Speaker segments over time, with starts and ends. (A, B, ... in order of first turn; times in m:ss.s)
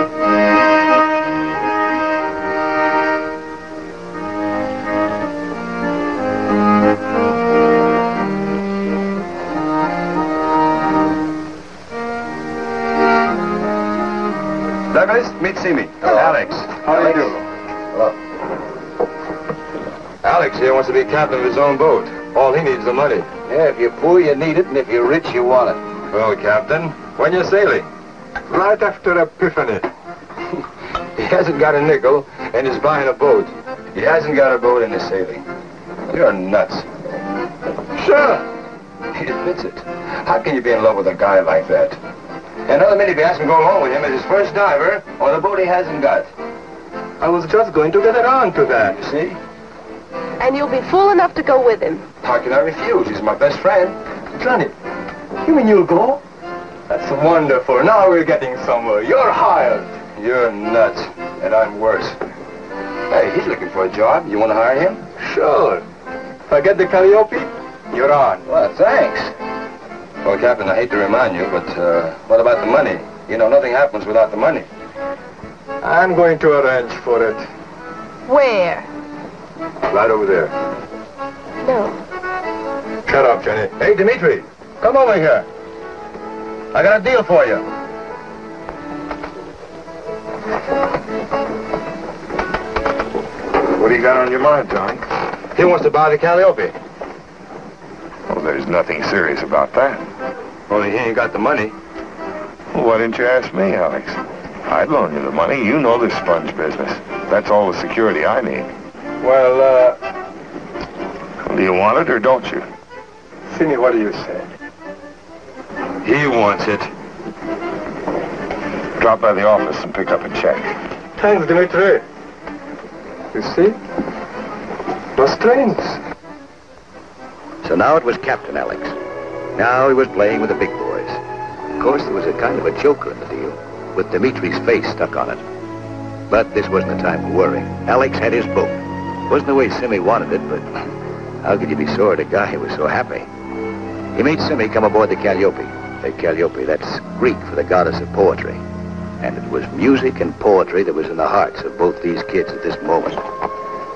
0:14.9-0:17.4 A
0:16.0-0:16.4 B
0:16.8-0:17.3 C
0:20.2-0:23.4 A
0:23.5-0:25.8 B
0:26.1-0:27.8 A
0:27.2-0:27.5 C
0:28.5-0:29.9 C
0:31.2-0:35.4 A
0:36.1-0:36.9 A
0:38.0-0:38.4 A
0:39.1-0:42.0 A
0:42.6-0:46.3 A
0:47.2-0:49.0 C
0:49.0-0:49.4 A
0:50.4-0:52.0 D
0:52.2-0:54.0 A
0:54.4-0:54.7 C
0:55.4-0:56.2 C
0:56.9-1:00.0 C
1:00.0-1:02.2 A
1:03.1-1:05.8 A
1:06.5-1:08.4 C
1:08.4-1:09.3 A
1:10.2-1:14.7 A
1:15.8-1:17.5 C
1:18.3-1:18.9 D
1:19.9-1:20.5 A
1:21.6-1:22.0 D
1:23.1-1:23.7 C
1:23.7-1:25.5 A
1:26.7-1:27.6 A
1:33.8-1:35.0 E
1:35.5-1:36.7 A
1:38.3-1:40.1 E
1:40.7-1:41.7 A
1:42.7-1:48.7 E
1:49.2-1:50.0 C
1:51.4-1:52.6 E
1:53.5-1:54.5 C
1:56.0-1:56.9 E
1:59.0-2:00.7 E
2:01.2-2:02.0 C
2:03.3-2:03.8 C
2:05.2-2:06.0 C
2:07.6-2:09.0 B
2:09.5-2:11.2 B
2:11.8-2:15.4 B
2:16.3-2:20.7 B
2:21.4-2:23.3 B
2:24.1-2:28.6 B
2:29.2-2:33.2 B